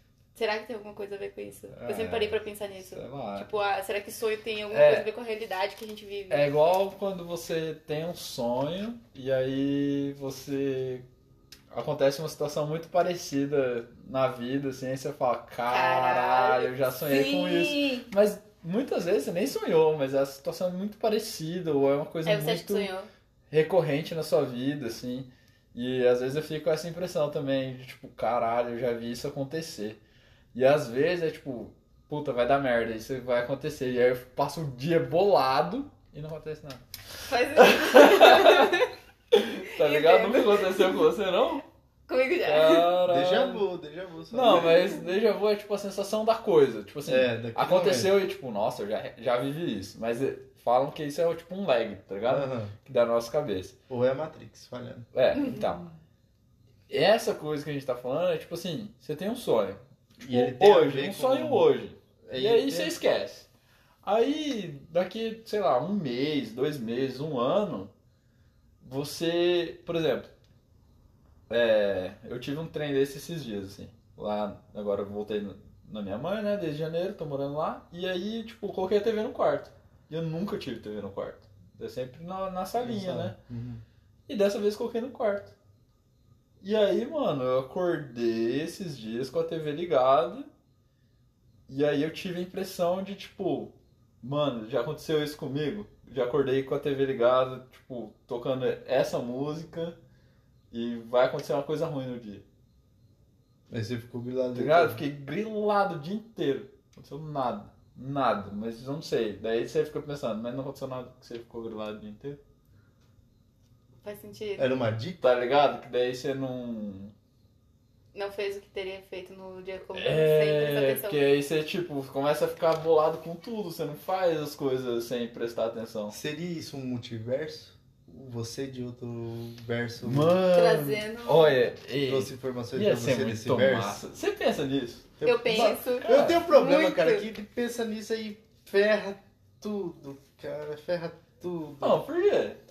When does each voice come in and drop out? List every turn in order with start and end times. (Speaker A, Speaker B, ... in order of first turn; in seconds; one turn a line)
Speaker A: 0.3-6.5
Speaker B: 1.7-3.5
Speaker B: 4.7-5.1
Speaker B: 6.3-11.0
Speaker B: 11.7-22.9
Speaker A: 15.7-18.1
Speaker A: 22.2-23.1
Speaker B: 23.5-30.0
Speaker B: 30.5-36.8
Speaker A: 37.2-38.9
Speaker B: 37.5-38.8
Speaker B: 39.3-41.6
Speaker A: 39.7-41.0
Speaker A: 42.1-42.9
Speaker B: 42.4-43.6
Speaker C: 43.0-45.0
Speaker B: 44.3-53.8
Speaker C: 47.0-48.2
Speaker C: 52.3-52.7
Speaker C: 53.9-55.1
Speaker B: 55.1-55.8
Speaker A: 55.4-55.6
Speaker B: 56.9-63.5
Speaker C: 60.2-61.7
Speaker C: 62.2-63.0
Speaker B: 64.0-67.9
Speaker B: 68.8-70.3
Speaker B: 71.5-83.3
Speaker C: 82.8-83.8
Speaker B: 84.3-85.5
Speaker B: 86.6-90.5
Speaker B: 91.7-100.0
Speaker B: 100.7-102.4
Speaker C: 103.7-105.0
Speaker B: 104.5-112.4
Speaker A: 114.0-114.8
Speaker C: 114.6-115.2
Speaker B: 115.2-117.1
Speaker A: 118.1-121.2
Speaker B: 119.9-126.1
Speaker C: 126.1-130.4
Speaker B: 130.0-135.1
Speaker A: 130.5-131.6
Speaker C: 132.0-134.0
Speaker C: 135.2-142.0
Speaker A: 135.2-137.2
Speaker B: 136.0-136.4
Speaker B: 141.8-142.6